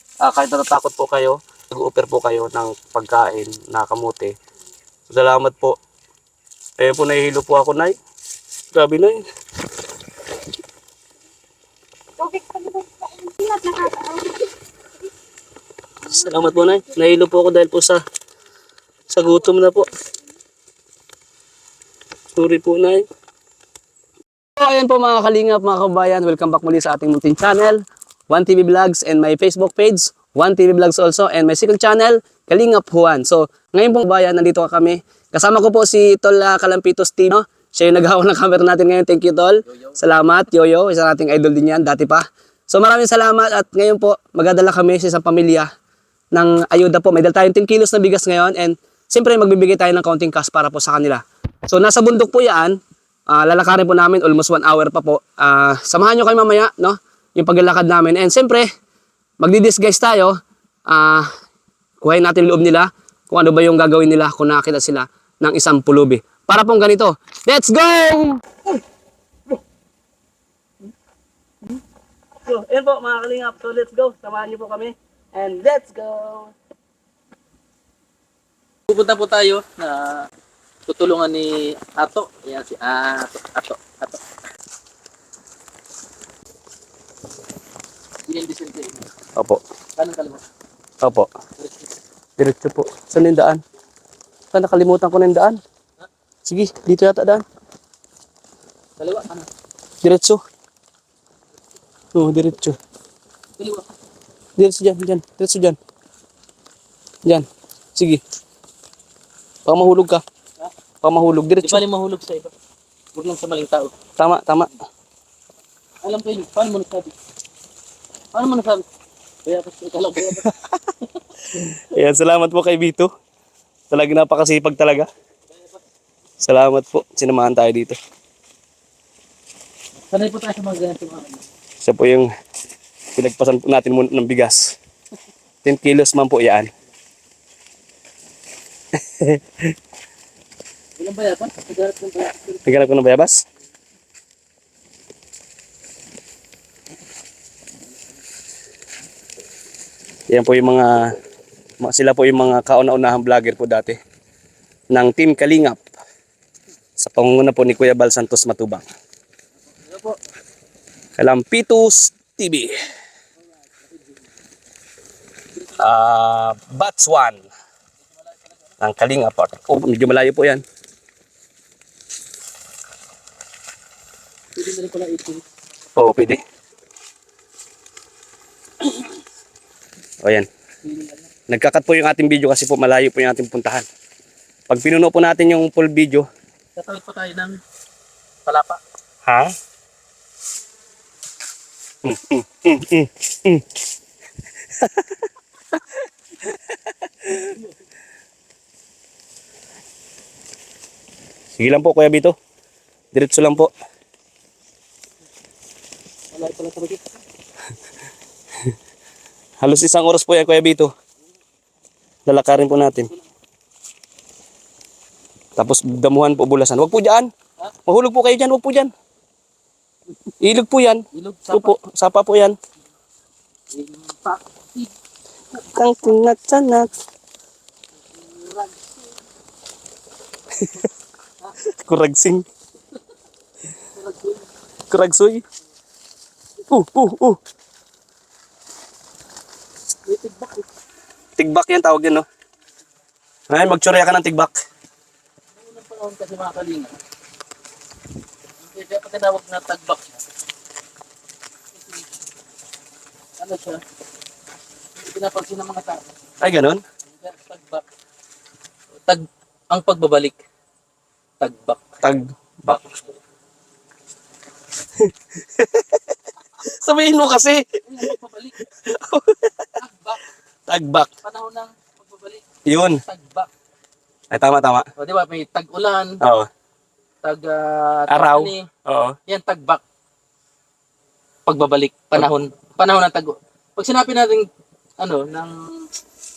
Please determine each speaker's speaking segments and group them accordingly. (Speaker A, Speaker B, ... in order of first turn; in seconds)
Speaker A: 0.2-4.3, 5.1-5.8, 6.8-7.9, 8.7-9.2, 16.1-18.0, 19.1-19.9, 22.4-23.0, 24.6-45.7, 46.3-52.8, 53.3-58.7, 59.4-61.3, 62.0-68.6, 72.5-76.5, 89.3-89.6, 91.0-91.3, 92.4-93.6, 94.5-95.6, 96.5-97.4, 100.0-100.4, 102.1-102.8, 104.6-105.8, 107.2-108.2, 109.6-110.2, 111.0-111.8, 114.2-114.7, 120.3-120.9, 121.7-123.1, 123.9-125.1, 126.4-128.0, 131.8-132.3, 133.2-134.8, 135.6-136.7, 138.9-139.7, 142.6-143.4, 150.3-151.1, 151.8-154.0, 154.9-155.8, 157.0-158.9, 161.2-162.7, 165.8-167.4, 168.8-170.6, 175.9-176.4, 181.5-183.8, 184.7-186.3, 189.2-189.5, 192.0-193.6, 194.8-195.1, 197.2-197.5, 201.6-202.3, 203.1-203.7, 209.6-210.9, 212.3-213.1, 215.6-217.3, 217.8-218.9, 220.4-222.6, 225.7-226.9, 230.6-230.8, 231.7-232.4, 234.9-235.4, 236.7-237.4, 241.4-242.2, 243.5-244.5, 256.4-256.8, 262.0-262.8, 265.0-266.0, 266.6-268.1, 268.8-269.7, 270.7-271.1, 272.6-273.0, 274.3-274.9, 276.2-276.5, 278.1-279.1
Speaker B: 12.2-14.4
Speaker C: 78.9-80.3, 80.9-84.2, 88.3-89.0, 90.0-90.4, 91.6-91.8, 99.0-99.5, 103.6-103.9, 111.6-112.5, 113.1-113.9, 116.0-117.1, 118.3-118.8, 119.5-120.5, 125.5-125.8, 130.1-131.4, 141.0-142.6, 159.7-160.2, 163.7-164.2, 168.0-168.6, 174.6-175.4, 180.8-181.2, 186.8-187.6, 188.4-188.8, 206.3-207.0, 221.1-221.7, 223.7-224.9, 228.1-228.9, 233.9-234.4, 240.1-240.7, 245.6-247.0, 248.6-250.2, 253.4-253.8, 255.0-256.1, 257.1-257.8, 259.1-260.4, 261.4-261.8, 267.9-268.6, 269.8-270.2, 271.2-272.4, 273.0-273.5, 275.0-276.2, 277.2-278.7, 279.3-279.8, 281.5-284.5, 285.0-285.9